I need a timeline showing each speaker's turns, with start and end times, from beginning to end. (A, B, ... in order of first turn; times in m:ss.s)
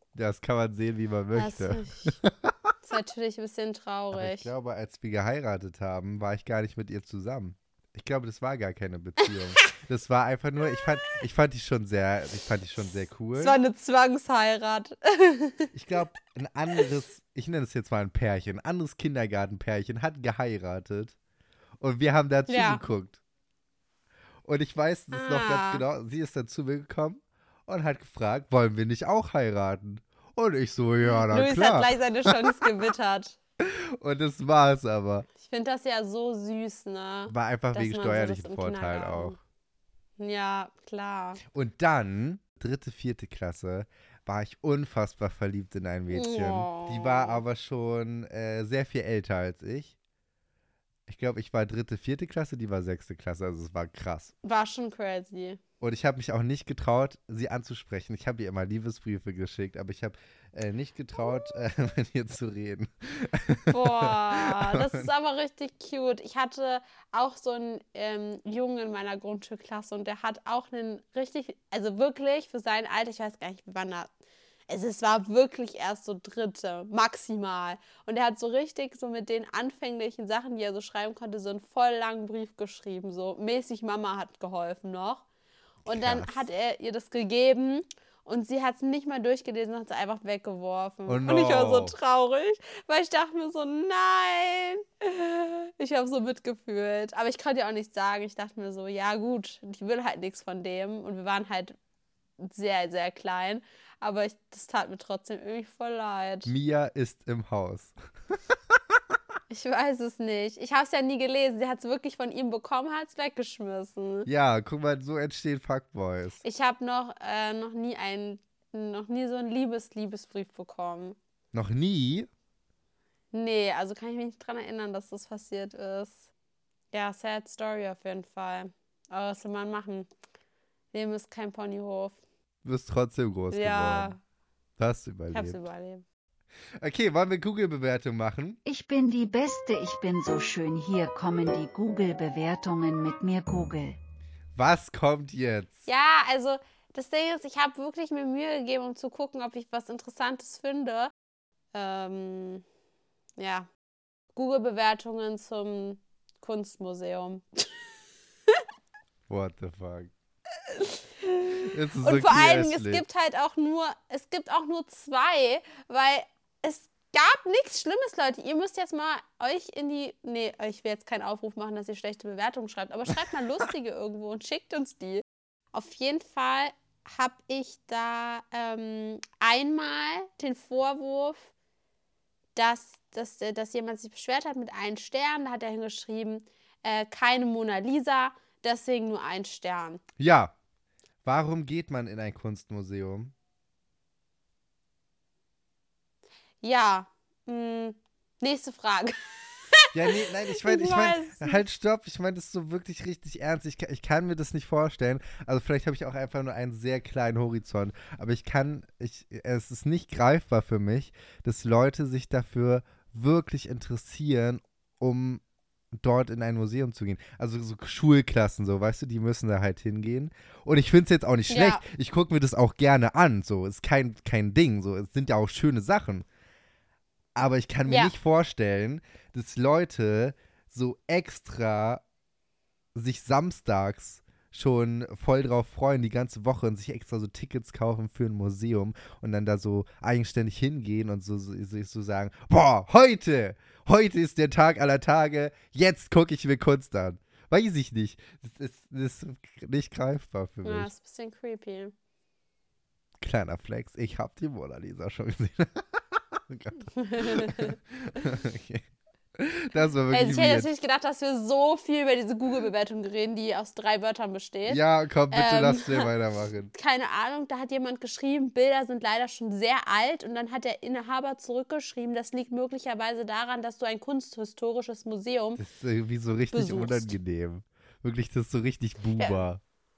0:00.2-0:02.6 A
0:01.3-0:02.2 B
0:02.8-0:04.5 B
0:04.1-0:13.6 A
0:13.4-0:15.7 B
0:15.7-0:21.2 A
0:21.8-0:23.2 A
0:22.5-0:22.8 B
0:24.4-0:32.6 A
0:25.1-0:25.8 B
0:31.2-0:33.4 B
0:33.6-0:35.3 A
0:35.4-0:39.4 B
0:37.3-0:39.4 A
0:40.2-0:41.4 B
0:41.5-0:50.0 A
0:46.1-0:47.4 B
0:51.1-0:54.3 A
0:54.4-0:55.6 B
0:55.8-1:05.1 A
1:03.7-1:14.1 B
1:14.7-1:25.2 B
1:25.8-1:26.3 A
1:25.9-1:41.8 B
1:31.1-1:31.9 A
1:42.4-1:46.5 B
1:46.5-1:48.0 A
1:48.5-1:49.1 A
1:49.5-1:54.3 B
1:54.3-1:56.4 A
1:56.4-2:01.2 B
2:01.5-2:02.3 A
2:03.3-2:06.3 B
2:06.9-2:10.1 B
2:10.9-2:12.2 B
2:12.6-2:14.2 A
2:13.5-2:14.2 B
2:14.8-2:15.6 A
2:15.3-2:16.0 B
2:16.8-2:18.6 A
2:18.6-2:24.0 C
2:24.6-2:25.9 A
2:25.9-2:31.1 B
2:31.7-2:32.6 B
2:33.4-2:33.7 B
2:34.3-2:37.7 B
2:39.3-2:40.1 A
2:40.7-3:01.5 B
2:41.6-2:43.0 A
3:02.6-3:10.0 B
3:10.2-3:10.5 A
3:11.2-3:13.3 A
3:16.6-3:21.6 B
3:19.9-3:35.4 A
3:36.0-3:46.2 A
3:41.5-3:41.8 B
3:47.4-3:52.0 A
3:47.9-3:48.1 B
3:53.0-4:10.9 A
4:10.6-4:11.9 B
4:13.2-4:18.8 A
4:17.0-4:17.8 B
4:19.4-4:20.7 A
4:20.1-4:24.8 B
4:24.7-4:26.7 A
4:25.3-4:26.1 B
4:26.7-4:35.6 B
4:35.6-4:39.6 A
4:36.5-4:37.2 B